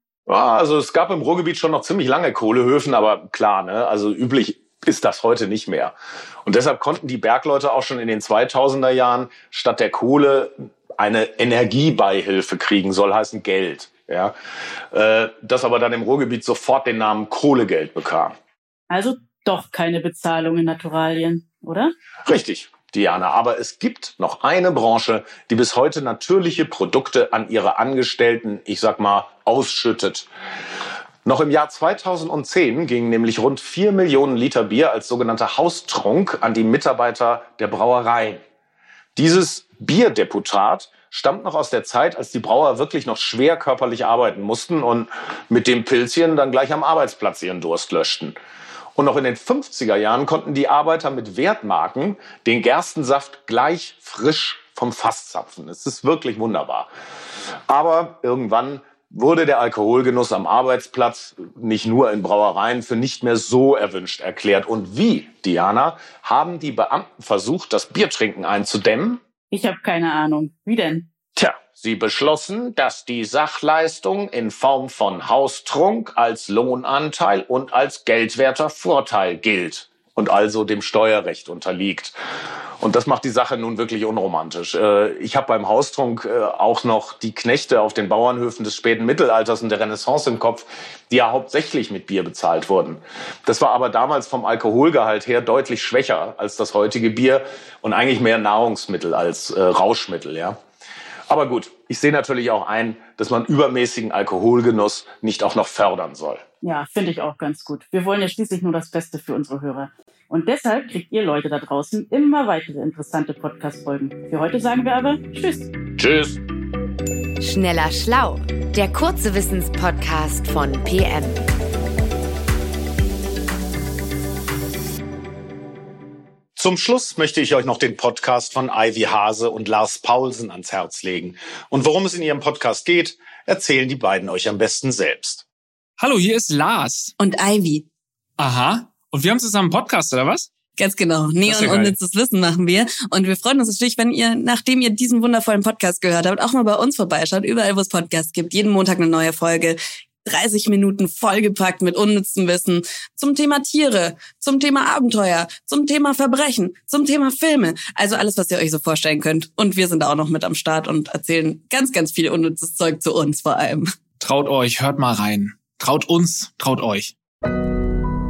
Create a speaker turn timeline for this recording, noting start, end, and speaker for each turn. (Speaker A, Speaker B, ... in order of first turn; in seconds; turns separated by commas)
Speaker A: 0.3-5.9, Speaker A: 6.5-14.3, Speaker A: 14.9-18.3, Speaker B: 18.9-21.9, Speaker A: 22.3-30.3, Speaker A: 31.2-38.4, Speaker A: 39.1-48.4, Speaker A: 48.9-56.9, Speaker A: 57.7-69.2, Speaker B: 69.5-71.1, Speaker A: 71.3-82.2, Speaker A: 82.8-100.6, Speaker A: 101.3-106.4, Speaker B: 106.6-115.7, Speaker A: 116.0-116.4, Speaker C: 117.4-121.5, Speaker A: 126.5-135.4, Speaker D: 136.0-137.1, Speaker E: 137.2-137.8, Speaker D: 138.4-140.5, Speaker E: 140.8-163.9, Speaker D: 141.4-142.0, Speaker D: 164.2-167.1